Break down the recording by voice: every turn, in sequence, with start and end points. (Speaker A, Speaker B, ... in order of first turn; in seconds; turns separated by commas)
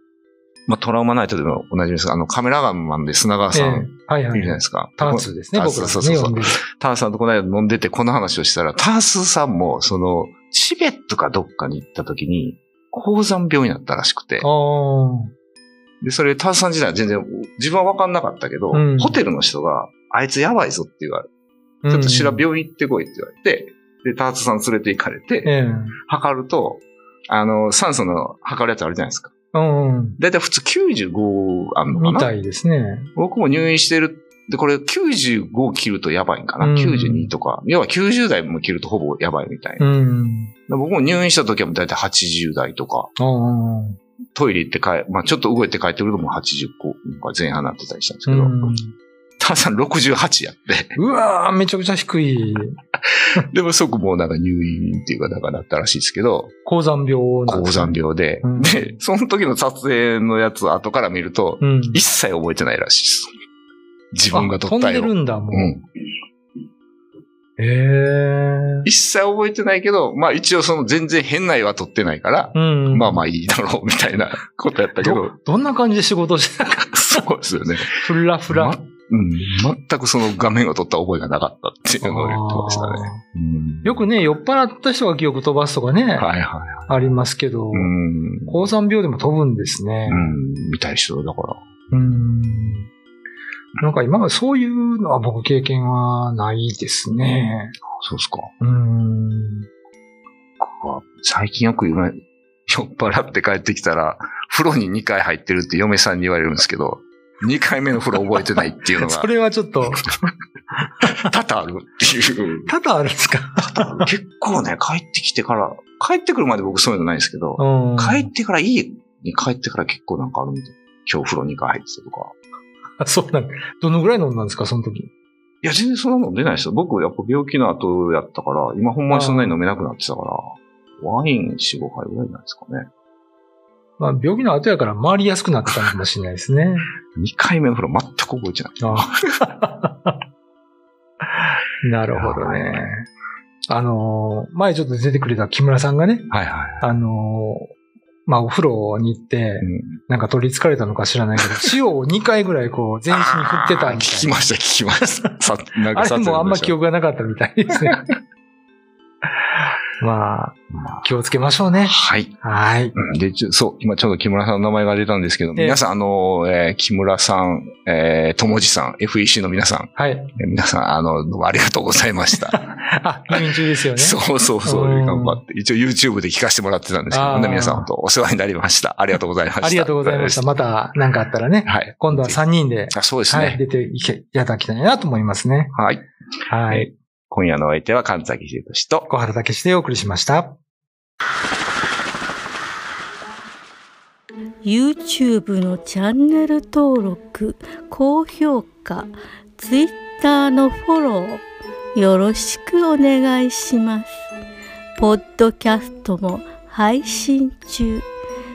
Speaker A: 0.7-14.5, Speaker B: 3.5-6.6, Speaker B: 14.4-15.3, Speaker A: 16.0-21.3, Speaker B: 18.7-19.2, Speaker B: 21.8-22.5, Speaker A: 21.9-25.5, Speaker B: 25.4-26.0, Speaker A: 26.1-29.3, Speaker B: 29.5-30.2, Speaker A: 30.2-32.3, Speaker B: 31.9-33.1, Speaker A: 33.2-39.9, Speaker B: 36.6-37.3, Speaker B: 39.8-40.5, Speaker A: 40.7-43.1, Speaker B: 43.2-44.0, Speaker A: 44.4-48.5, Speaker B: 48.3-49.0, Speaker A: 49.4-51.0, Speaker B: 51.0-52.8, Speaker A: 53.4-56.5, Speaker B: 56.6-58.9, Speaker A: 57.5-63.3, Speaker B: 61.6-62.0, Speaker A: 64.1-65.8, Speaker B: 64.3-65.8, Speaker B: 67.6-68.9, Speaker A: 68.8-75.3, Speaker B: 72.5-73.2, Speaker B: 75.0-77.2, Speaker A: 77.1-84.0, Speaker B: 77.8-78.8, Speaker B: 82.0-83.2, Speaker B: 83.8-86.3, Speaker A: 86.2-87.1, Speaker B: 86.9-87.9, Speaker A: 87.7-88.6, Speaker B: 88.5-90.4, Speaker A: 90.1-92.8, Speaker B: 91.9-92.9, Speaker B: 93.8-97.8, Speaker A: 98.0-98.5, Speaker B: 98.6-99.7, Speaker A: 100.6-109.3, Speaker B: 108.4-110.1, Speaker B: 110.8-111.2, Speaker A: 111.0-112.7, Speaker B: 112.7-114.1, Speaker A: 113.6-122.3, Speaker B: 117.6-118.3, Speaker B: 123.0-125.1, Speaker A: 125.6-132.9, Speaker B: 129.1-129.6, Speaker B: 134.0-136.9, Speaker A: 137.2-139.2, Speaker B: 138.8-140.2, Speaker B: 141.4-143.1, Speaker A: 142.1-142.8, Speaker B: 143.7-147.7, Speaker A: 146.3-146.9, Speaker B: 148.3-154.4, Speaker A: 149.6-150.0, Speaker A: 153.1-156.8, Speaker B: 155.9-158.0, Speaker B: 159.9-162.9, Speaker A: 160.7-161.0, Speaker A: 161.8-162.4, Speaker A: 162.9-172.6, Speaker B: 165.6-165.8, Speaker B: 170.0-170.3, Speaker B: 172.3-175.4, Speaker A: 173.3-180.5, Speaker B: 177.1-177.9, Speaker B: 179.6-185.7, Speaker A: 181.7-183.6, Speaker A: 185.7-186.1, Speaker B: 186.5-186.9, Speaker A: 186.7-189.1, Speaker B: 189.1-190.6, Speaker C: 194.6-201.4, Speaker C: 201.9-204.1, Speaker C: 205.0-208.1